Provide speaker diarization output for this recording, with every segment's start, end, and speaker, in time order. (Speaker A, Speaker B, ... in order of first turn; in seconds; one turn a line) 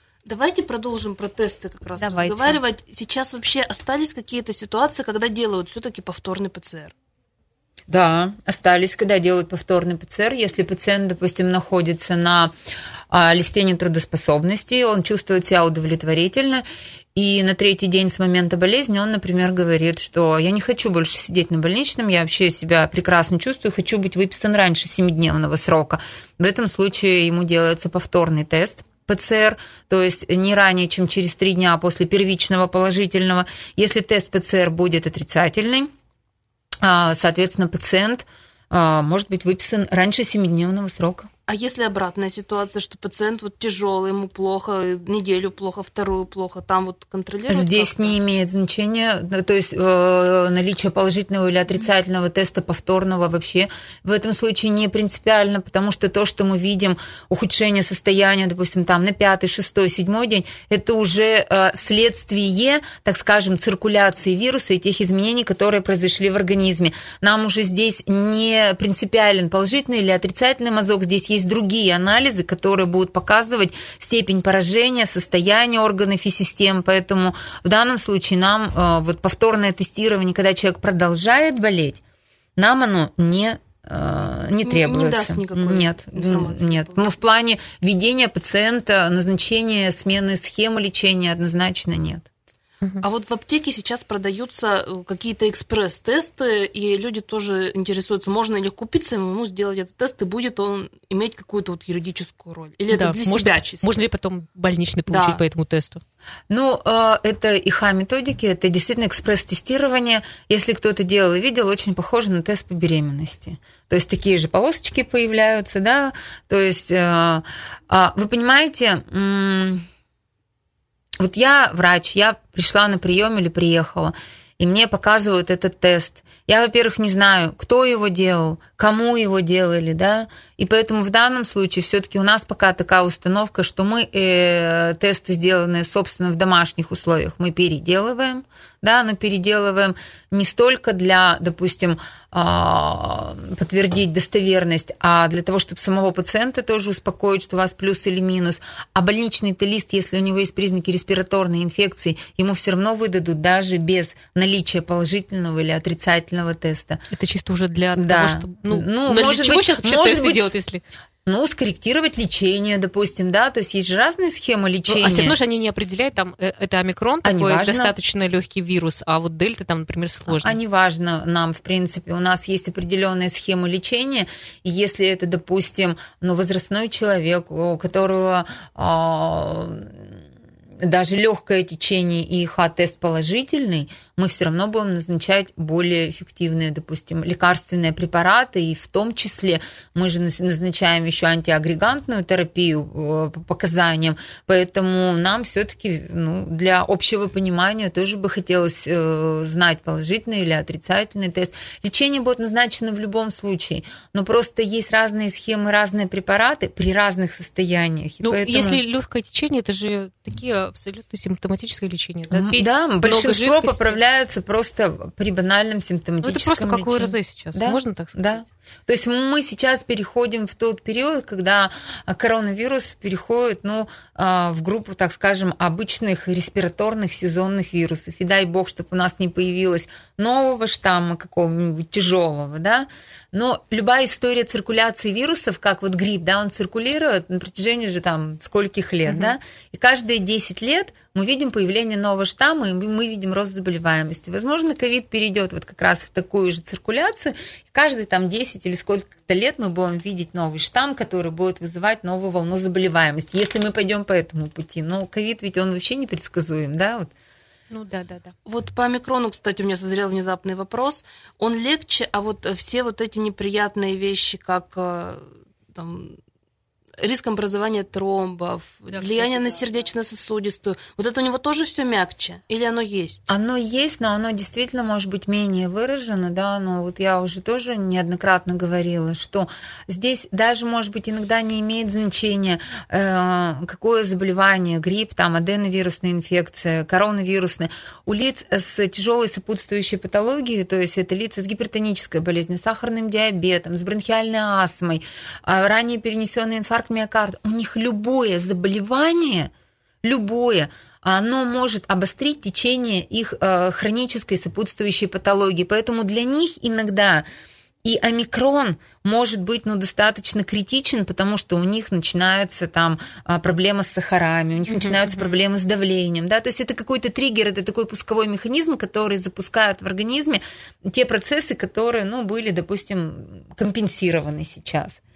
Speaker A: 0.2-6.9
Speaker B: 2.0-2.6
Speaker C: 7.9-12.5
Speaker C: 13.1-35.9
Speaker C: 36.8-41.3
Speaker A: 41.5-48.2
Speaker C: 47.5-82.0
Speaker C: 82.6-92.3
Speaker A: 84.6-87.1
Speaker A: 93.0-103.9
Speaker B: 102.9-106.0
Speaker A: 105.1-105.4
Speaker C: 106.5-119.8
Speaker C: 121.2-157.0
Speaker B: 157.1-160.8
Speaker C: 157.9-160.5
Speaker C: 161.2-165.3
Speaker B: 164.9-170.6
Speaker C: 167.2-167.9
Speaker C: 170.3-180.1
Speaker C: 180.8-208.8
Speaker B: 208.2-214.0
Speaker C: 212.3-257.1
Speaker B: 216.2-218.2
Speaker B: 239.1-239.3
Speaker B: 257.7-258.3
Speaker A: 258.4-266.2
Speaker A: 267.0-273.2
Speaker B: 269.0-269.5
Speaker C: 273.3-299.5
Speaker C: 300.0-307.2
Speaker C: 307.8-325.0
Speaker B: 314.7-315.3